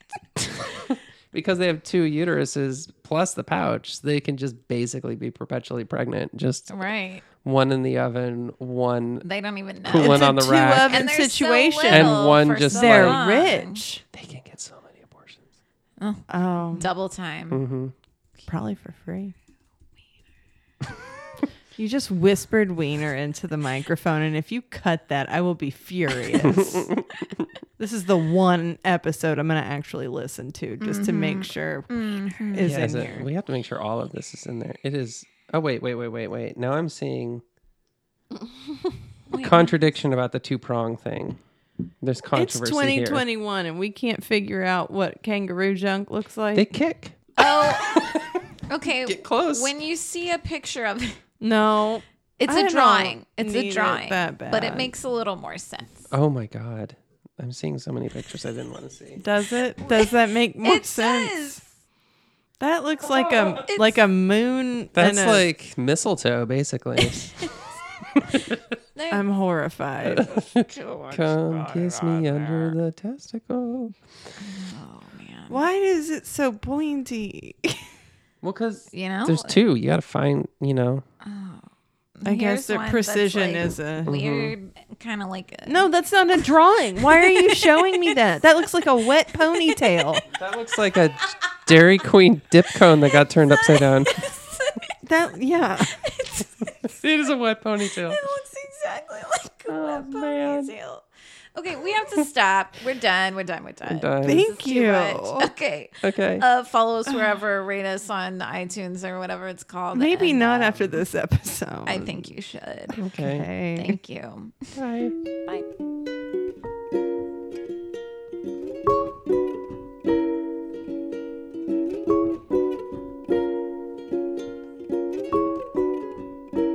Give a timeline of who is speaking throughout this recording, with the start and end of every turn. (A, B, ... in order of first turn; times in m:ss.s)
0:00.8-0:06.7 A
0:06.7-0:07.2 B
0:07.3-0:09.2 A
0:09.2-0:10.3 B
0:09.8-0:11.0 A
0:09.9-0:14.0 C
0:10.8-0:13.8 B
0:11.9-0:13.2 A
0:14.1-0:15.4 A
0:16.0-0:17.6 B
0:16.3-0:16.9 C
0:17.5-0:17.9 A
0:18.5-0:19.3 C
0:21.8-0:26.9 C
0:26.4-0:27.5 A
0:27.8-0:33.3 C
0:30.8-0:32.8 B
0:32.6-0:37.4 A
0:39.3-0:39.7 B
0:39.3-0:41.4 A
0:42.0-0:43.2 A
0:42.3-0:46.7 C
0:46.5-0:48.4 A
0:47.4-0:48.1 B
0:48.7-0:51.2 B
0:49.0-0:49.7 A
0:51.4-0:54.9 C
0:52.4-0:56.1 B
0:56.1-0:59.2 A
0:59.2-1:01.6 C
0:59.8-1:01.6 B
1:02.6-1:05.4 C
1:03.0-1:03.6 A
1:03.6-1:04.0 B
1:04.9-1:07.4 A
1:07.0-1:07.6 B
1:08.2-1:08.7 A
1:08.9-1:09.2 B
1:09.1-1:12.7 C
1:10.0-1:13.9 A
1:10.7-1:11.2 B
1:14.4-1:15.6 B
1:15.5-1:17.9 C
1:18.4-1:21.0 A
1:18.9-1:19.6 B
1:21.2-1:25.8 B
1:22.2-1:24.1 C
1:24.0-1:24.5 A
1:25.7-1:30.2 C
1:27.1-1:28.2 B
1:29.3-1:30.0 B
1:30.3-1:34.3 A
1:33.1-1:34.9 B
1:35.0-1:36.0 C
1:35.8-1:37.0 B
1:36.8-1:38.2 A
1:38.0-1:41.0 B
1:39.7-1:40.7 A
1:41.5-1:51.0 B
1:43.9-1:44.5 A
1:44.2-1:45.5 C
1:46.0-1:46.4 A
1:49.9-1:52.2 C
1:51.8-1:53.0 B
1:53.0-1:53.4 A
1:53.2-1:54.0 C
1:53.7-1:54.7 B
1:54.7-1:55.1 A